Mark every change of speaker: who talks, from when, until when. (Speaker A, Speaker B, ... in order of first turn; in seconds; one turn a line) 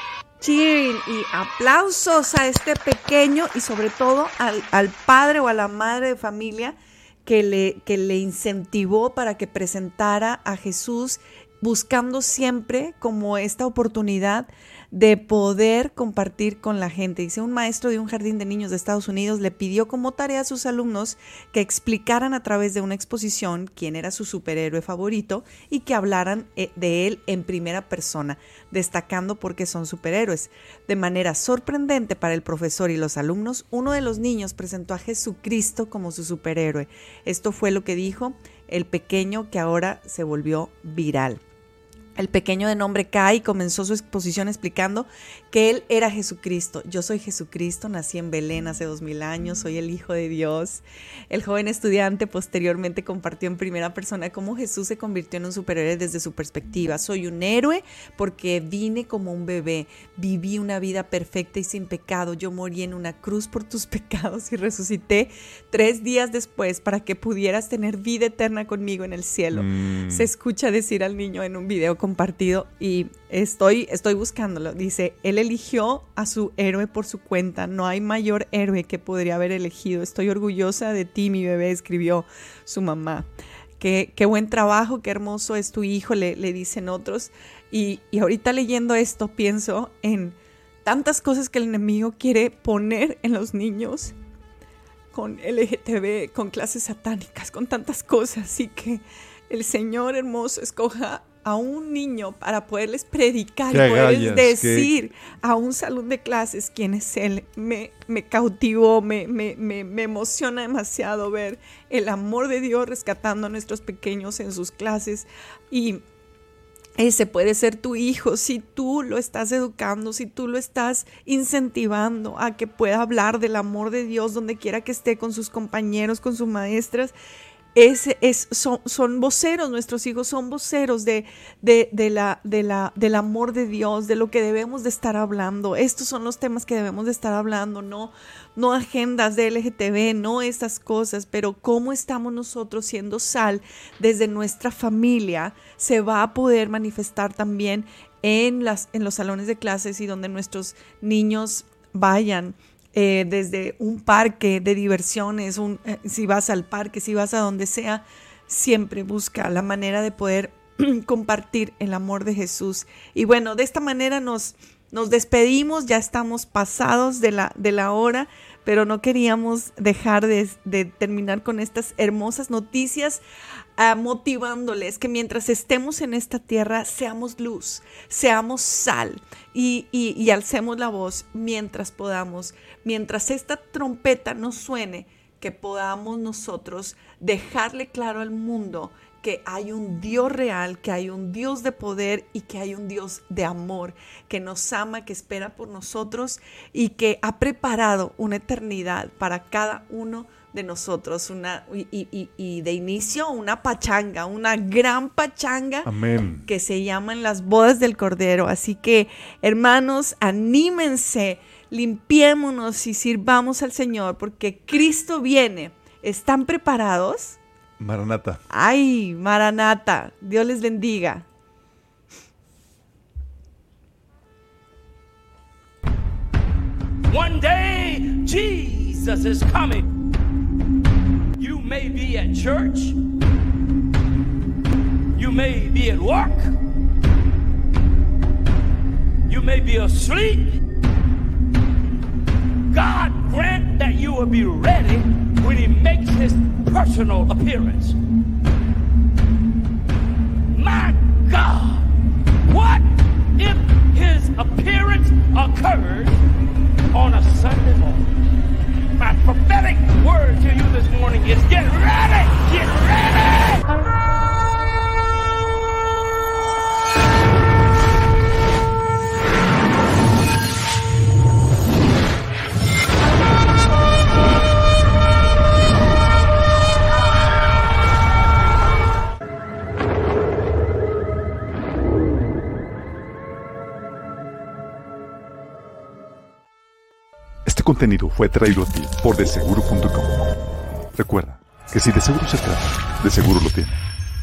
Speaker A: 0.4-41.4
Speaker A: 42.1-83.3
Speaker B: 69.5-70.3
Speaker A: 83.8-94.1
Speaker A: 95.1-116.0
Speaker B: 103.7-104.9
Speaker A: 117.0-127.1
Speaker A: 127.7-173.2
Speaker A: 173.8-205.9
Speaker B: 205.8-206.5
Speaker A: 206.4-217.4
Speaker B: 217.8-218.4
Speaker A: 218.5-221.2
Speaker C: 227.1-229.9
Speaker C: 231.4-233.0
Speaker C: 235.2-236.5
Speaker C: 239.3-240.6
Speaker C: 242.7-248.0
Speaker C: 250.5-251.9
Speaker C: 252.5-256.2
Speaker C: 256.9-258.1
Speaker C: 259.0-263.7
Speaker B: 287.4-290.3
Speaker B: 290.9-293.8